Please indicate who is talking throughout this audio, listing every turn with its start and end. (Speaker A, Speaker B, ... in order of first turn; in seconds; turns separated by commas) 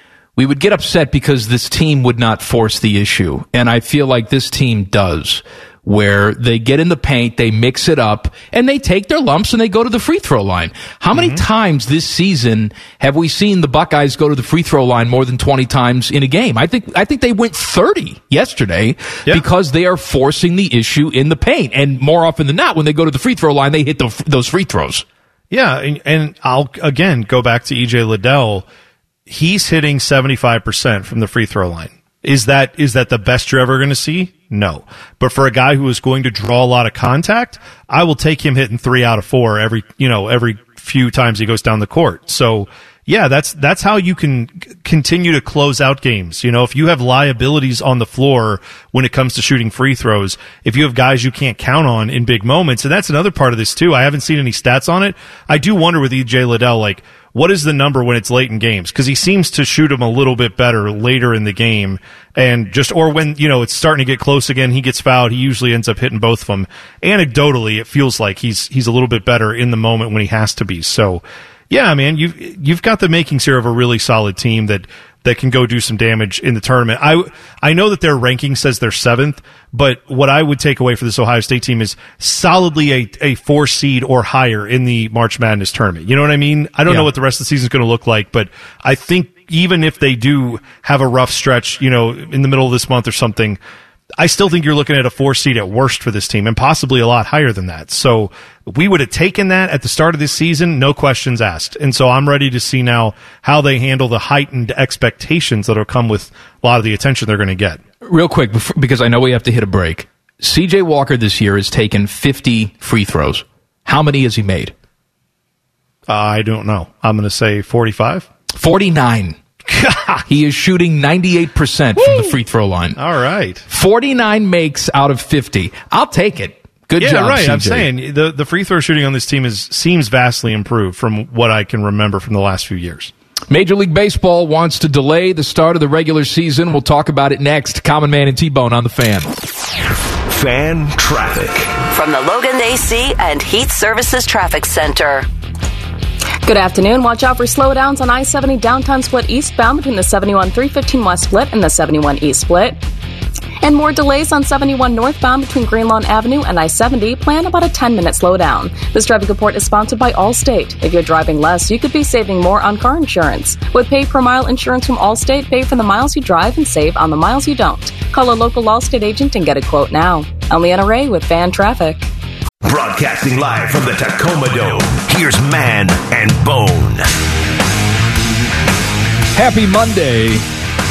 Speaker A: 0.4-25.1, Speaker B: 11.1-11.4, Speaker B: 25.5-28.7, Speaker B: 29.3-93.6, Speaker B: 94.2-107.8, Speaker A: 108.0-114.7, Speaker B: 116.1-118.3, Speaker A: 118.5-119.4, Speaker B: 119.7-120.3, Speaker A: 120.3-123.0, Speaker B: 122.0-122.3, Speaker B: 123.0-123.7, Speaker A: 123.7-127.9, Speaker B: 127.0-133.1, Speaker A: 133.5-139.3, Speaker C: 140.3-141.8, Speaker D: 141.9-145.3, Speaker E: 146.4-152.8, Speaker E: 153.6-172.1, Speaker C: 172.6-177.1, Speaker A: 179.3-180.4